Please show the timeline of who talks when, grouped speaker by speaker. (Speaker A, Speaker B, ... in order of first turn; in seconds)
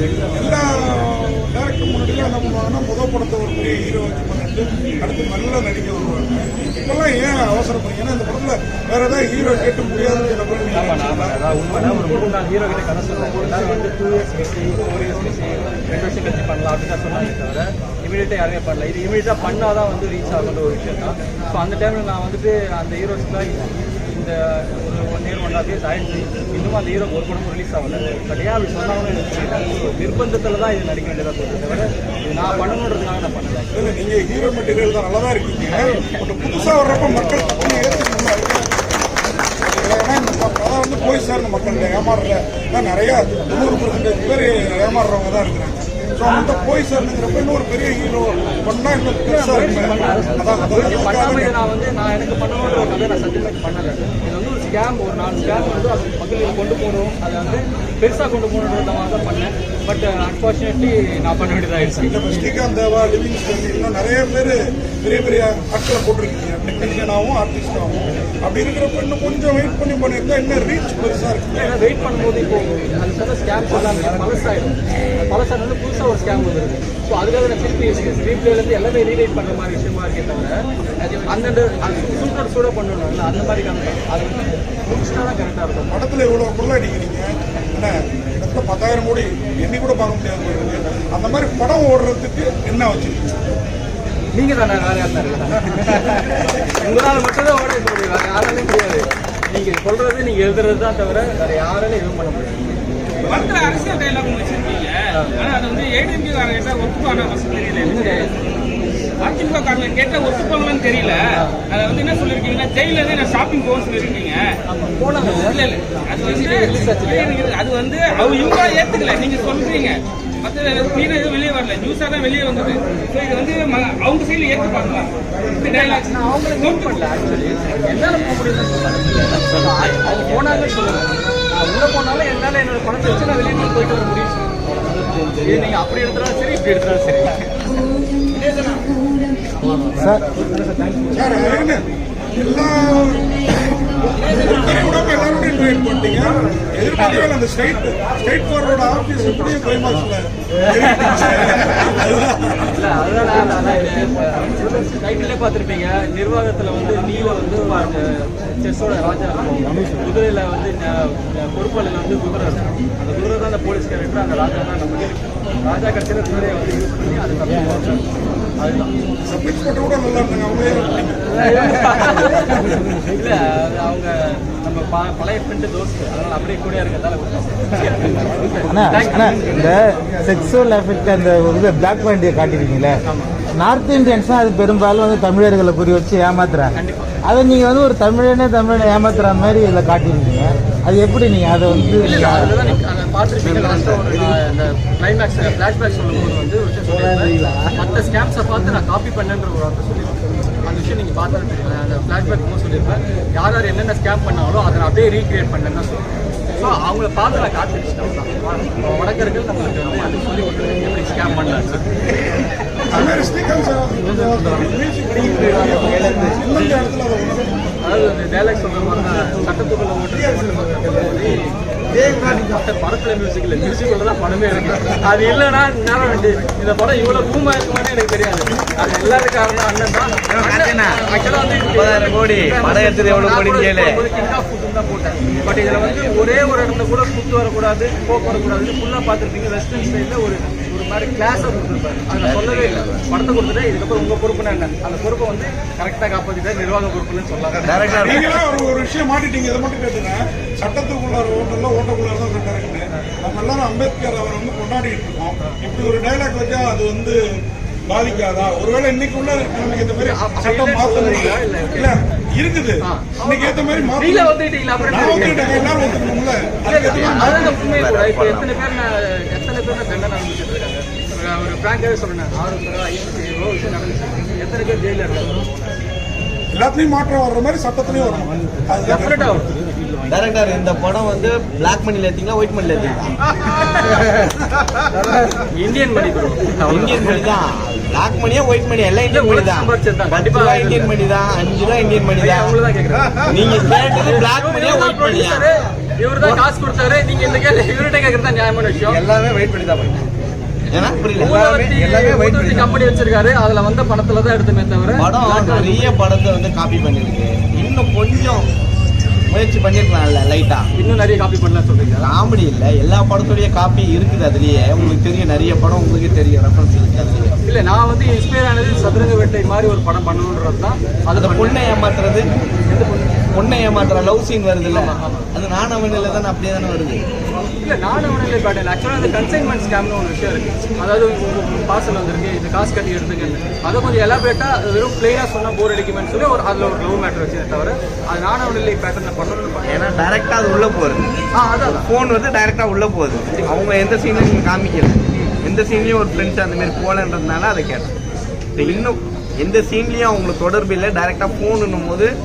Speaker A: 0.3-11.4, 33.7-38.8, 39.6-51.5, 62.0-71.8, 85.9-93.2, 141.1-141.8, 142.3-152.8, 169.2-171.2, 212.9-217.5, 247.9-257.2, 257.9-267.5, 276.5-279.3
Speaker B: 10.7-33.8, 49.2-62.2, 71.5-86.0, 94.3-102.7, 107.8-108.3, 114.7-115.6, 116.2-117.3, 125.6-134.5, 135.4-137.4, 150.7-151.9, 152.7-168.9, 171.3-179.6, 183.1-183.3, 186.8-187.1, 192.0-211.8, 212.9-213.3, 215.2-215.7, 217.8-248.1, 260.0-262.0, 262.8-265.8, 266.6-275.7, 278.8-279.6, 285.5-287.2, 289.1-290.9, 292.2-299.0, 301.1-305.9, 310.8-312.1, 317.4-321.7, 322.7-323.2, 324.7-325.3, 327.4-339.8, 341.3-341.9
Speaker C: 103.2-108.3, 109.2-114.5, 115.2-127.0, 230.3-231.0
Speaker D: 129.3-130.7, 193.4-194.4, 215.8-216.4, 221.9-222.3, 231.7-234.0, 242.2-243.1, 247.6-248.3, 266.9-268.5, 280.1-283.2, 286.7-292.6, 293.2-295.5, 298.9-300.0, 300.7-302.8, 305.0-308.5, 309.3-310.6, 312.0-317.4, 321.1-322.3, 323.3-327.0, 339.7-347.9, 348.6-352.1
Speaker E: 139.9-140.2, 178.7-183.0, 183.5-192.5, 196.9-197.7